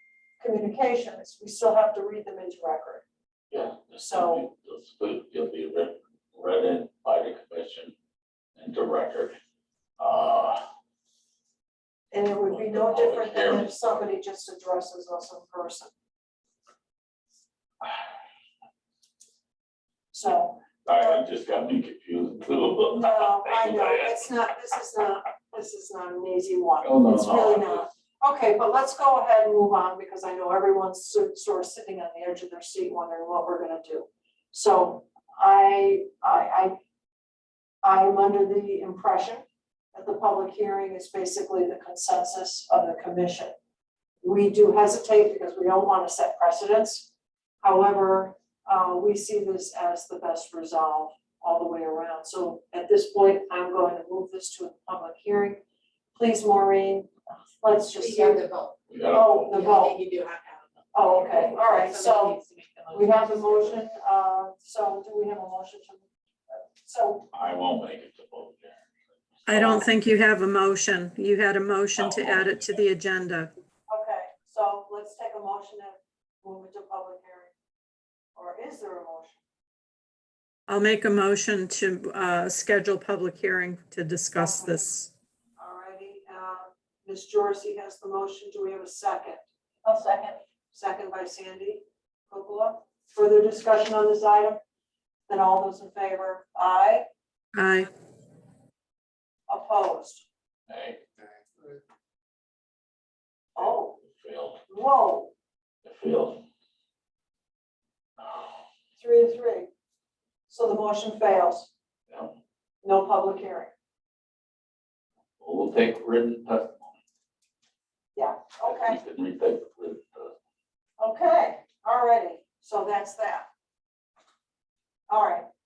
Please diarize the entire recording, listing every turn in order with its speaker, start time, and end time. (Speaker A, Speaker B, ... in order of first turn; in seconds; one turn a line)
Speaker A: 0.4-3.0
Speaker B: 3.5-7.9
Speaker A: 4.0-4.5
Speaker B: 8.6-9.3
Speaker B: 10.0-10.6
Speaker A: 12.1-15.9
Speaker B: 12.4-14.1
Speaker A: 20.1-21.2
Speaker B: 20.9-24.2
Speaker A: 22.9-36.8
Speaker B: 26.8-27.9
Speaker A: 37.8-43.5
Speaker A: 44.2-47.1
Speaker A: 47.6-55.6
Speaker A: 56.1-58.4
Speaker C: 58.0-58.7
Speaker B: 58.9-59.6
Speaker A: 59.1-60.0
Speaker C: 59.5-63.8
Speaker A: 60.9-62.4
Speaker A: 62.9-67.3
Speaker B: 67.3-68.8
Speaker B: 69.5-69.9
Speaker D: 69.5-73.5
Speaker B: 72.0-72.6
Speaker A: 73.9-77.5
Speaker A: 78.3-79.4
Speaker D: 80.7-85.1
Speaker A: 84.3-84.8
Speaker A: 85.6-89.4
Speaker C: 89.8-90.4
Speaker A: 90.7-94.6
Speaker A: 95.3-97.0
Speaker D: 97.5-97.9
Speaker A: 99.5-100.2
Speaker B: 100.7-101.0
Speaker A: 103.5-104.0
Speaker B: 103.6-104.6
Speaker A: 104.7-105.3
Speaker B: 105.8-106.4
Speaker B: 108.2-108.5
Speaker A: 109.0-109.7
Speaker A: 110.5-111.7
Speaker B: 112.1-112.3
Speaker A: 112.8-113.7
Speaker B: 115.4-117.0
Speaker A: 118.1-119.0
Speaker B: 118.6-120.3
Speaker A: 121.0-123.5
Speaker A: 125.1-125.5